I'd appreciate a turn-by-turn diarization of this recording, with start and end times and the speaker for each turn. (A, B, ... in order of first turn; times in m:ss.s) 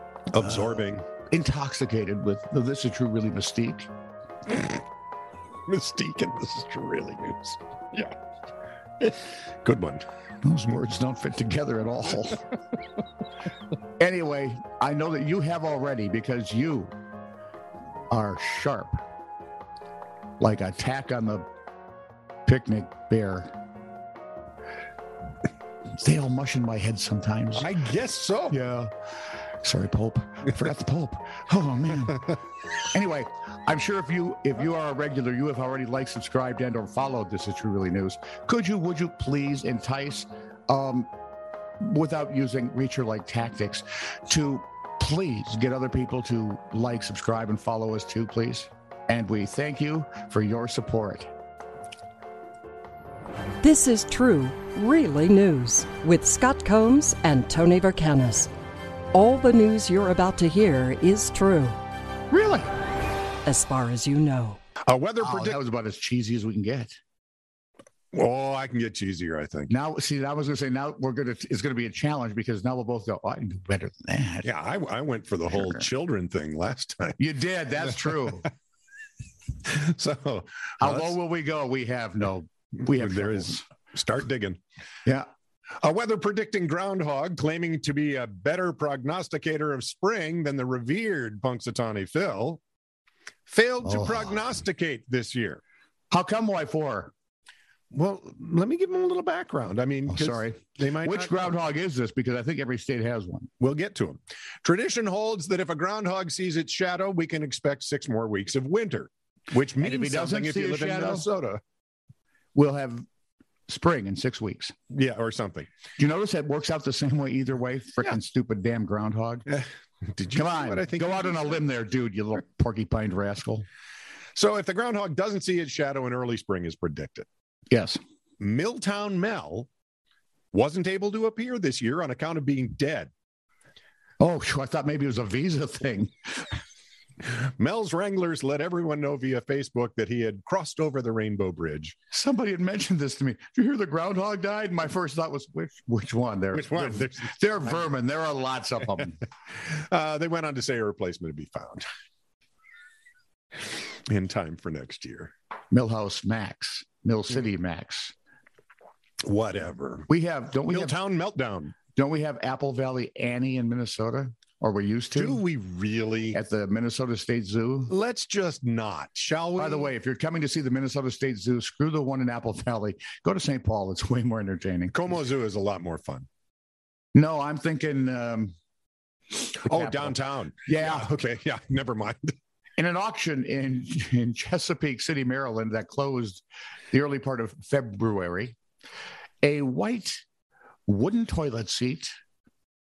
0:00.3-0:01.1 A
0:01.3-0:03.9 B
0:05.7-0:08.2 A
0:09.0-0:10.0 A
0:10.4-0:12.4 B
0:14.0-0:16.9 B
0:18.1-0:19.0 B
0:20.4-0:21.5 B
0:22.5-0:23.5 B
0:26.0-0:27.7 B
0:27.6-0:28.6 A
0:28.5-0:28.9 B
0:29.6-0:32.4 B
0:32.9-0:41.1 B
0:41.8-0:51.3 B
0:53.6-0:58.5 C
0:59.1-1:01.8 C
1:02.3-1:02.7 B
1:03.5-1:04.6 C
1:04.9-1:05.6 A
1:05.2-1:07.0 B
1:08.1-1:09.7 A
1:09.7-1:14.5 B
1:14.4-1:17.2 A
1:15.6-1:15.8 B
1:17.2-1:18.5 B
1:19.6-1:21.2 A
1:20.8-1:23.6 B
1:22.9-1:24.6 A
1:25.8-1:32.6 A
1:33.5-1:35.6 A
1:33.8-1:34.4 B
1:36.1-1:37.1 B
1:37.9-1:41.6 A
1:40.1-1:43.5 B
1:43.6-1:51.6 A
1:49.8-1:51.3 B
1:52.6-1:53.0 B
1:53.7-1:54.7 B
1:54.9-1:55.7 A
1:56.0-1:59.5 B
1:59.5-2:01.6 A
2:00.3-2:03.7 B
2:04.4-2:07.3 A
2:07.7-2:08.0 B
2:08.4-2:09.7 A
2:10.5-2:13.1 A
2:14.2-2:16.5 B
2:17.2-2:22.0 A
2:22.1-2:29.2 B
2:26.5-2:27.8 A
2:29.6-2:31.9 A
2:34.1-2:35.3 A
2:35.7-2:38.1 B
2:39.2-2:40.1 A
2:40.1-2:41.0 B
2:40.7-2:41.8 A
2:42.0-2:45.4 B
2:45.2-2:46.4 A
2:46.3-2:47.9 B
2:47.9-2:49.9 A
2:49.6-2:55.0 B
2:54.9-2:56.3 A
2:57.2-2:58.5 B
2:59.6-3:01.1 B
2:59.6-3:02.3 A
3:02.8-3:08.6 B
3:09.4-3:10.2 B
3:10.9-3:12.1 B